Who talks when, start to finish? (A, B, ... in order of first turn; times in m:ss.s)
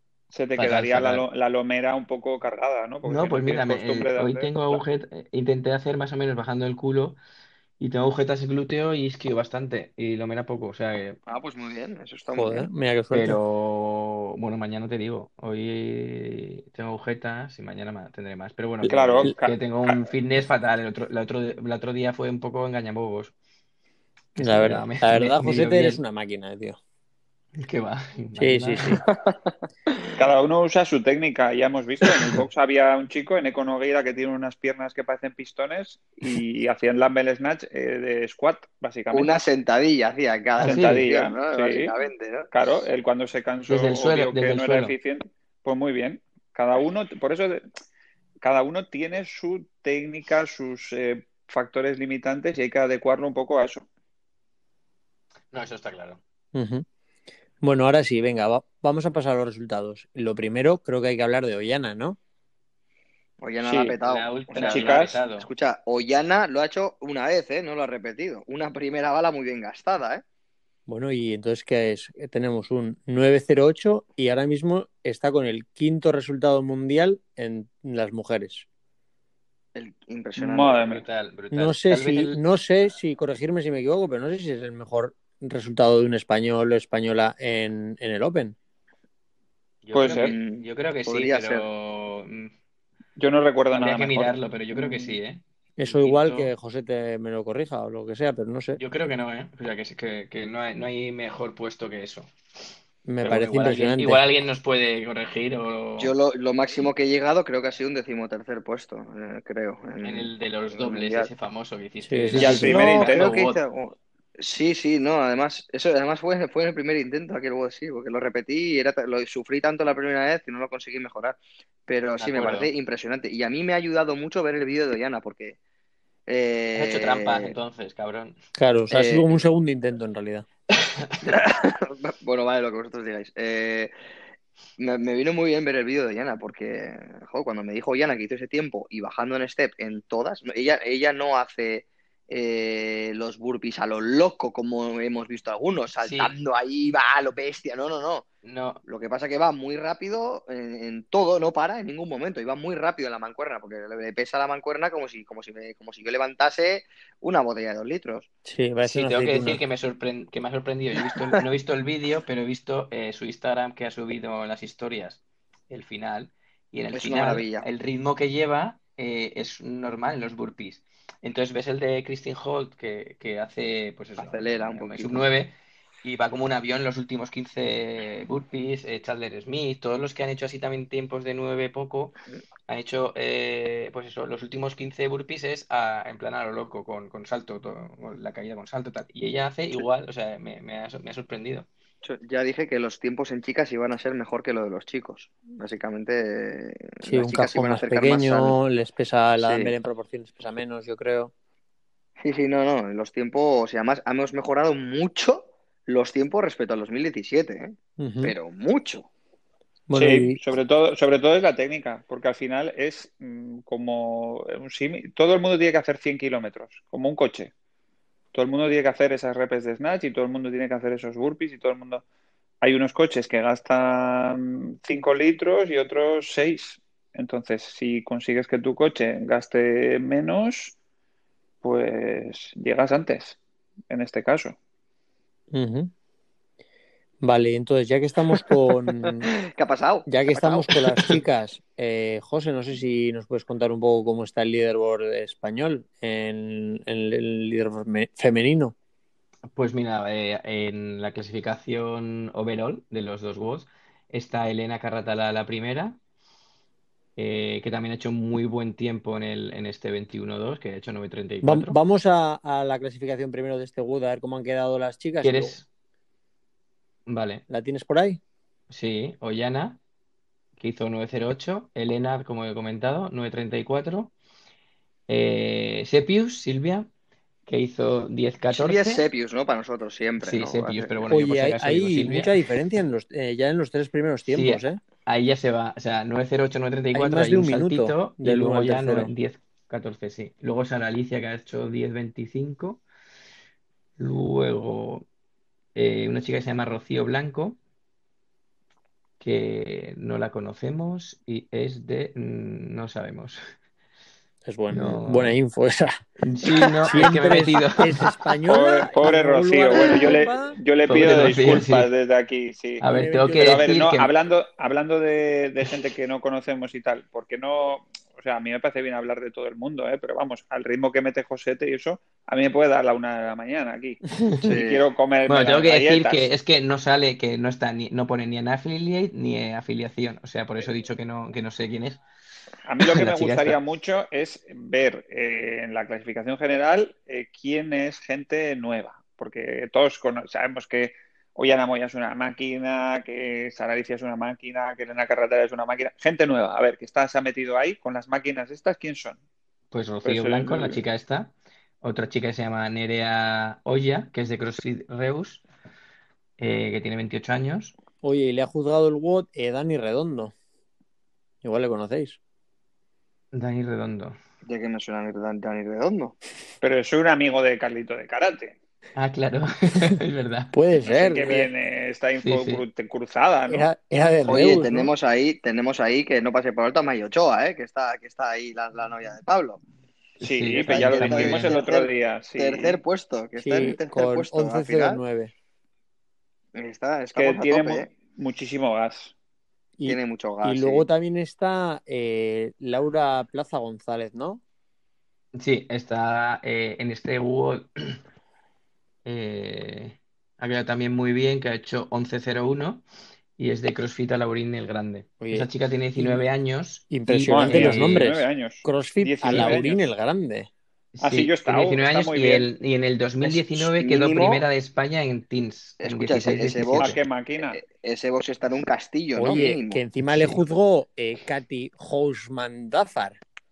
0:00.3-0:04.8 A
0:00.6-0:01.2 B
0:03.0-0:07.2 B
0:07.8-0:11.2 B
0:11.3-0:12.7 C
0:12.3-0:13.4 D
0:13.1-0:23.3 B
0:18.8-0:20.1 A
0:24.4-0:26.0 B
0:24.4-0:26.8 D
0:27.6-0:29.0 B
0:28.4-0:29.0 D
0:29.1-0:29.5 C
0:30.2-0:39.3 A
0:39.1-0:42.5 C
0:40.6-0:41.0 B
0:40.6-0:41.9 A
0:42.5-0:47.6 A
0:43.7-0:44.9 B
0:48.4-0:53.8 A
0:55.5-0:56.2 B
0:56.5-0:56.8 D
0:57.6-1:02.2 D
1:03.4-1:10.2 C
1:03.6-1:04.0 A
1:04.0-1:05.5 B
1:04.5-1:05.2 A
1:10.9-1:18.6 D
1:19.7-1:20.9 C
1:20.4-1:21.0 A
1:20.8-1:22.4 B
1:21.5-1:28.6 D
1:29.8-1:32.5 B
1:29.9-1:30.3 A
1:30.0-1:31.7 C
1:33.2-1:35.2 A
1:33.7-1:36.5 B
1:35.8-1:38.8 D
1:38.8-1:42.3 B
1:43.0-1:44.2 D
1:43.2-1:46.1 B
1:46.0-1:51.3 C
1:50.0-1:53.6 B
1:52.0-1:52.8 D
1:52.4-1:53.3 A
1:52.6-2:05.6 C
2:02.2-2:02.7 B
2:06.3-2:07.6 C
2:06.7-2:08.4 B
2:08.6-2:10.4 D
2:08.9-2:09.3 C
2:11.2-2:13.9 C
2:14.8-2:28.2 C
2:26.0-2:26.3 B
2:28.4-2:28.8 B
2:28.8-2:38.3 C
2:38.4-2:39.6 D
2:38.8-3:02.2 B
2:41.0-2:41.3 C
2:46.9-2:47.6 C
2:54.2-2:55.3 C
3:02.7-3:11.7 B
3:12.0-3:18.6 C
3:17.0-3:21.3 D
3:19.4-3:19.7 C
3:22.2-3:29.1 C
3:28.0-3:28.3 D
3:29.9-3:30.4 D
3:29.9-3:37.5 A
3:38.3-3:42.0 A
3:42.6-3:50.7 A
3:51.6-3:53.4 A
3:53.9-3:54.6 A
3:55.5-3:55.9 D
3:57.2-3:59.3 D
3:59.0-4:01.2 C
4:00.1-4:08.7 D
4:09.5-4:16.0 B
4:17.2-4:21.8 B
4:21.4-4:25.6 D
4:25.2-4:25.6 B
4:27.1-4:27.4 B
4:27.5-4:28.2 D
4:28.7-4:29.8 B
4:30.6-4:34.1 B
4:35.1-4:36.9 B
4:37.4-4:39.0 B
4:38.5-4:41.2 C
4:40.2-4:42.3 B
4:41.1-4:44.8 D
4:44.3-4:52.8 B
4:46.9-4:49.1 D
4:54.0-4:55.0 B
4:55.7-4:57.6 B
4:59.2-5:03.4 B
5:04.4-5:06.0 D
5:04.7-5:05.4 B
5:06.2-5:08.1 B
5:06.8-5:10.6 D
5:08.5-5:12.8 A
5:10.9-5:11.9 B
5:12.8-5:14.1 B
5:12.9-5:13.7 D
5:13.4-5:26.3 A
5:24.4-5:24.8 C
5:25.3-5:32.0 B
5:32.6-5:49.2 A
5:32.8-5:33.6 B
5:49.7-5:55.4 B
5:50.0-5:50.8 A
5:56.4-5:57.7 B
5:58.0-6:00.3 D
6:01.4-6:02.2 D
6:03.3-6:04.2 B
6:04.4-6:06.2 C
6:06.6-6:08.6 A
6:09.0-6:10.5 B
6:10.5-6:11.5 D
6:10.8-6:13.7 A
6:12.2-6:12.6 B
6:13.5-6:14.9 D
6:14.2-6:19.6 C
6:20.2-6:21.6 B
6:20.2-6:22.8 A
6:20.6-6:25.0 C
6:23.4-6:25.3 D
6:26.5-6:27.9 C
6:27.1-6:29.1 A
6:29.8-6:34.4 D
6:29.8-6:30.9 C
6:35.4-6:38.0 B
6:39.0-6:42.8 B
6:43.4-6:48.0 B
6:45.2-6:46.2 D
6:46.9-6:50.5 D
6:47.3-6:49.8 A
6:49.2-6:49.6 B
6:50.9-6:57.0 B
6:51.0-6:52.5 A
6:53.2-6:54.4 C
6:55.8-6:59.8 C
6:56.8-6:57.6 A
6:59.2-7:03.2 D
7:00.1-7:00.4 B